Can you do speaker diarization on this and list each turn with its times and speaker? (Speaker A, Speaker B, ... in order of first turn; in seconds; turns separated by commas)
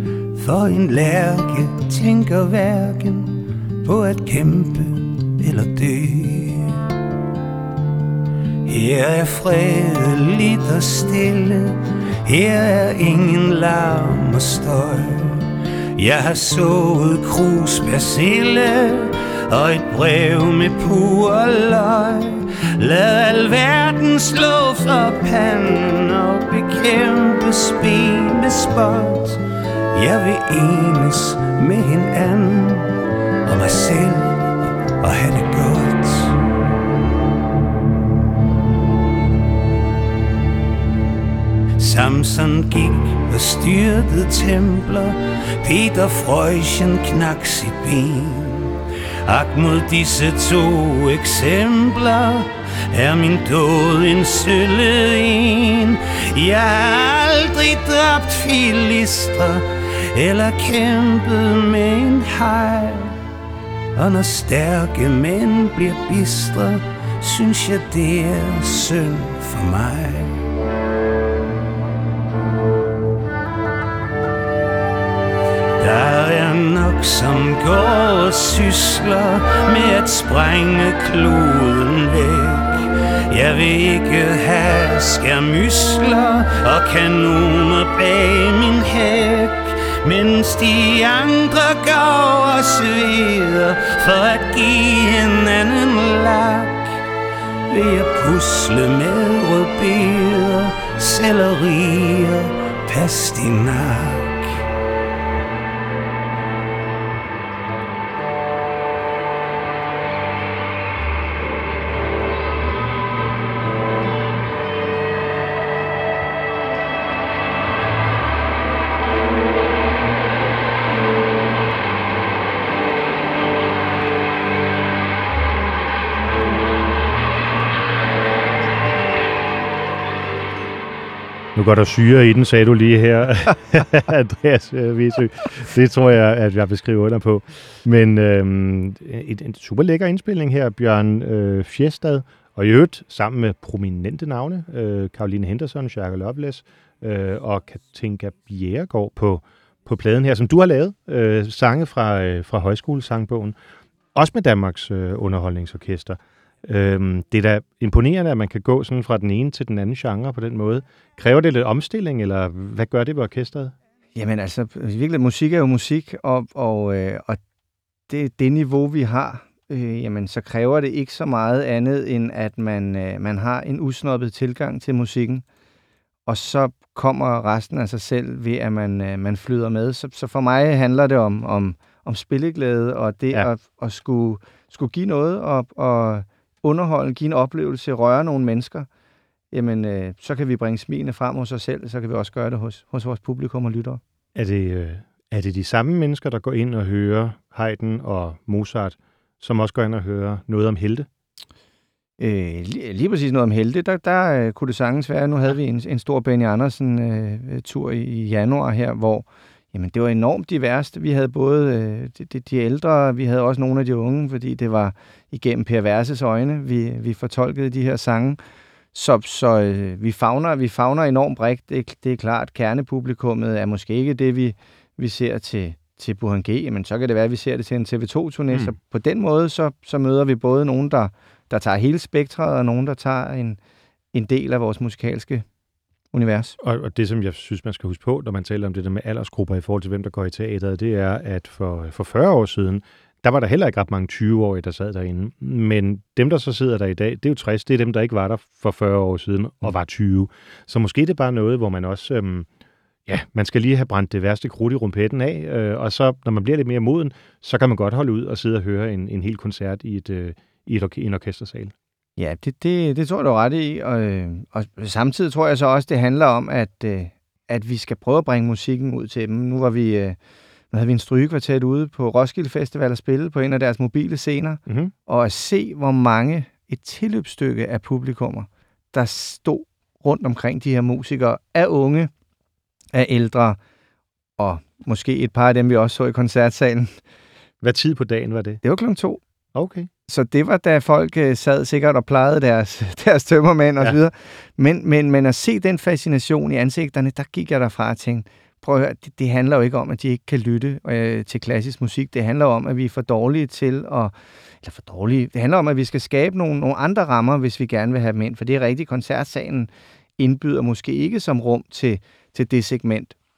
Speaker A: 0.3-6.8, Speaker A: 8.6-29.4, Speaker A: 29.9-36.4, Speaker A: 41.8-63.2, Speaker A: 63.9-70.4, Speaker A: 75.8-97.0, Speaker A: 97.7-104.6, Speaker B: 131.5-153.6, Speaker B: 154.1-163.7, Speaker C: 164.2-167.4, Speaker C: 168.1-175.4, Speaker C: 176.3-188.9, Speaker C: 189.5-194.0, Speaker B: 194.3-201.1, Speaker C: 202.2-218.4, Speaker C: 218.9-233.6, Speaker C: 234.1-235.4, Speaker C: 236.1-236.6, Speaker B: 236.6-252.5, Speaker B: 253.1-261.7, Speaker C: 262.2-270.2, Speaker C: 270.7-282.1, Speaker B: 274.7-274.9, Speaker C: 282.9-283.6, Speaker C: 284.4-286.9, Speaker B: 287.6-288.6, Speaker C: 288.6-289.2, Speaker B: 289.5-289.9, Speaker C: 290.1-313.1